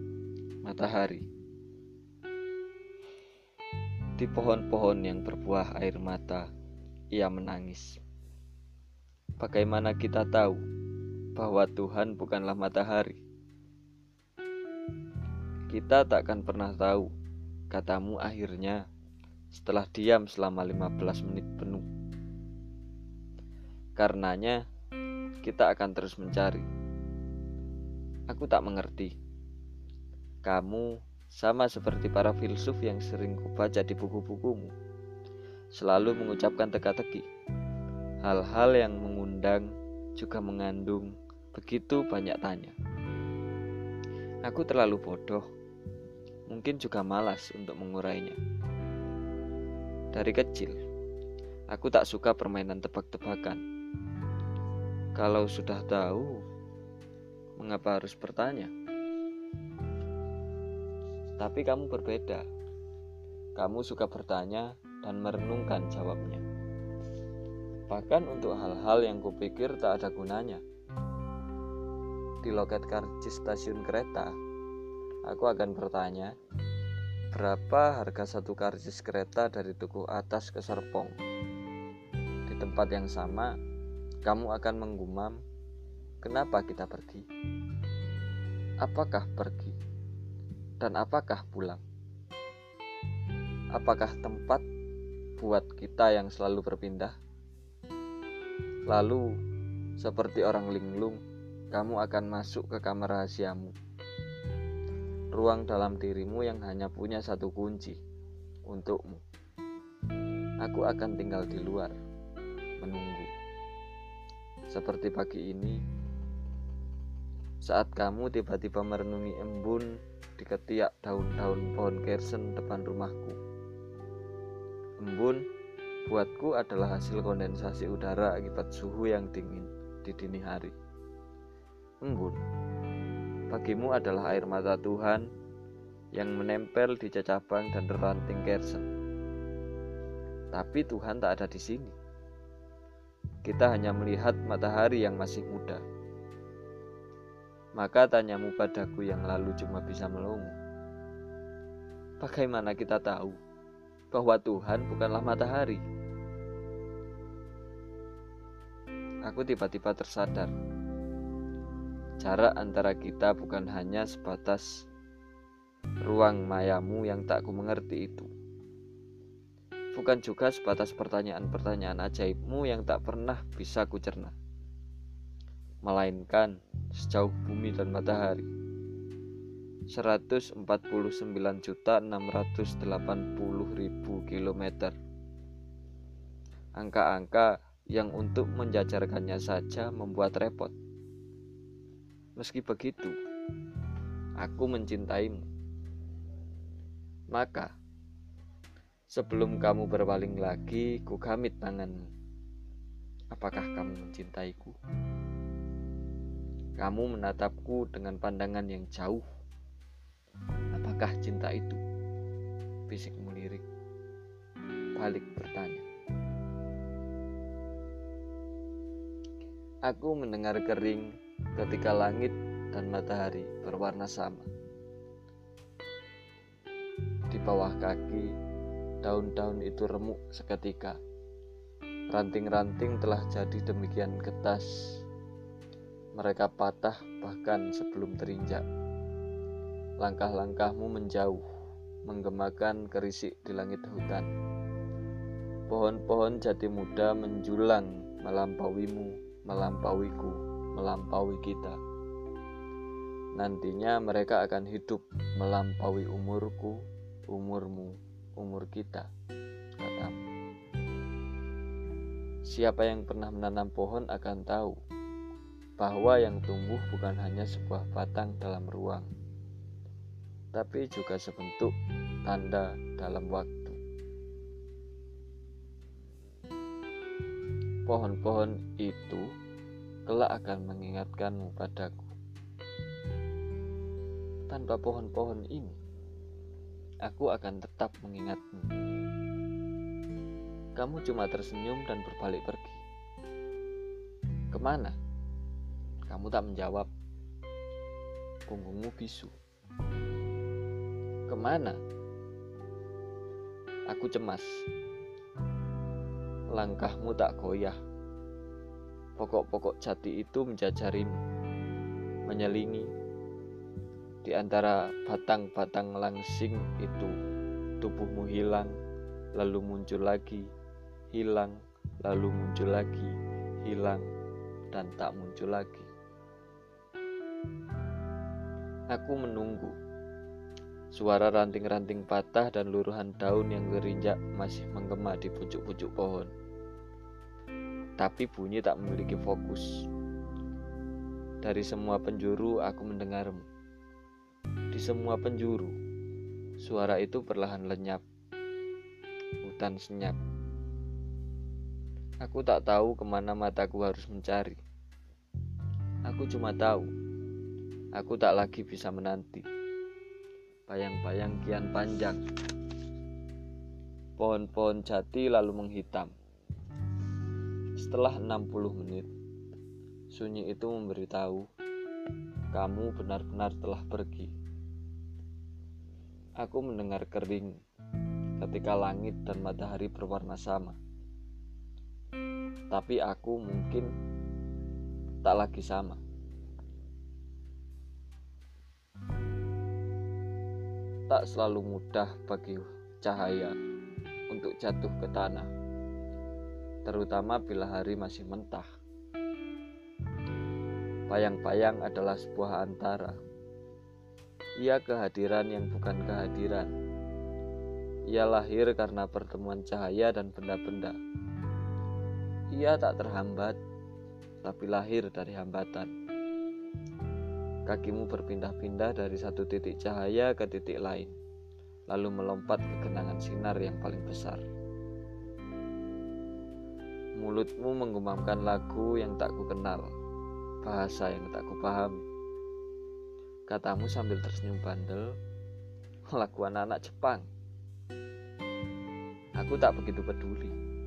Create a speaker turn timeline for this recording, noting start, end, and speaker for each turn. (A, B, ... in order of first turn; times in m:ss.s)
0:00.6-0:01.2 A
0:04.2-0:06.4 A
0:07.1-0:08.0 A
0:09.4-0:10.6 A
0:11.4-0:13.2 A
0:15.7-0:17.1 A
0:17.7-0:18.8 A
0:19.5-0:21.8 A
0:24.0-0:24.6 A
0:25.4-0:26.6 A
0:28.3-0:29.1 A
0:30.4-0:34.7 A
0:35.7-0:37.2 A
0:38.2-0:42.7 A
0:44.4-0:45.4 A
0:46.5-0:48.4 A
0:50.1-0:50.8 A
0:51.7-0:53.6 A
0:55.2-0:56.4 A
0:57.6-0:58.7 A
1:01.4-1:02.4 A
1:03.6-1:06.4 A
1:07.9-1:10.6 A
1:12.4-1:14.4 A
1:15.2-1:16.3 A
1:17.3-1:21.2 A
1:22.4-1:23.6 A
1:24.2-1:25.4 A
1:26.2-1:27.2 A
1:28.8-1:29.8 A
1:30.8-1:31.8 A
1:33.7-1:34.6 A
1:35.4-1:37.1 A
1:38.9-1:39.2 A
1:40.0-1:41.2 A
1:41.7-1:43.7 A
1:45.3-1:48.0 A
1:48.7-1:49.2 A
1:50.6-1:51.9 A
1:52.8-1:53.3 A
1:54.7-1:55.8 A
1:57.6-2:03.4 A
2:05.0-2:05.4 A
2:06.0-2:10.7 A
2:12.0-2:12.4 A
2:13.5-2:15.2 A
2:16.1-2:18.9 A
2:20.5-2:21.9 A
2:23.4-2:25.8 A
2:27.8-2:30.5 A
2:32.2-2:33.4 A
2:34.1-2:35.8 A
2:39.2-2:40.5 A
2:42.2-2:44.8 A
2:46.0-2:48.3 A
2:49.9-2:54.3 A
2:55.8-2:58.5 A
2:59.9-3:04.9 A
3:06.8-3:10.7 A
3:12.4-3:13.2 A
3:14.4-3:15.4 A
3:17.3-3:17.7 A
3:19.1-3:22.0 A
3:23.3-3:24.7 A
3:26.8-3:29.2 A
3:30.7-3:31.8 A
3:32.9-3:33.6 A
3:35.0-3:35.8 A
3:39.9-3:44.5 A
3:47.3-3:48.3 A
3:49.0-3:51.0 A
3:52.1-3:54.7 A
3:56.2-3:58.6 A
4:00.0-4:01.4 A
4:02.0-4:04.3 A
4:05.7-4:11.8 A
4:13.4-4:16.8 A
4:17.3-4:19.1 A
4:19.8-4:20.2 A
4:22.5-4:24.8 A
4:25.8-4:29.1 A
4:30.5-4:31.7 A
4:32.2-4:33.8 A
4:37.8-4:39.2 A
4:40.0-4:42.1 A
4:44.5-4:45.8 A
4:47.0-4:48.7 A
4:50.8-4:52.8 A
4:54.5-4:54.9 A
4:56.1-4:56.9 A
4:58.5-4:59.3 A
5:01.3-5:01.8 A
5:03.9-5:04.6 A
5:06.5-5:07.8 A
5:09.2-5:11.2 A
5:12.3-5:12.9 A
5:14.2-5:17.2 A
5:17.8-5:18.7 A
5:19.4-5:20.4 A
5:21.1-5:24.0 A
5:24.7-5:25.9 A
5:28.9-5:29.7 A
5:30.9-5:36.3 A
5:38.0-5:39.7 A
5:41.4-5:43.4 A
5:44.7-5:45.7 A
5:46.6-5:48.0 A
5:49.4-5:50.2 A
5:52.2-5:54.6 A
5:56.1-5:56.9 A
5:58.0-5:59.5 A
6:00.7-6:02.2 A
6:04.2-6:06.1 A
6:07.8-6:09.1 A
6:10.1-6:11.4 A
6:12.5-6:14.3 A
6:16.4-6:17.6 A
6:18.4-6:20.8 A
6:22.7-6:23.9 A
6:25.2-6:26.0 A
6:31.1-6:33.5 A
6:34.3-6:35.5 A
6:36.8-6:38.7 A
6:41.1-6:43.2 A
6:44.6-6:46.7 A
6:48.1-6:51.0 A
6:52.5-6:53.6 A
6:54.4-6:55.9 A
6:57.6-7:01.1 A
7:01.9-7:04.4 A
7:07.2-7:09.9 A
7:10.6-7:12.0 A
7:13.5-7:15.1 A
7:16.1-7:17.3 A
7:19.4-7:20.5 A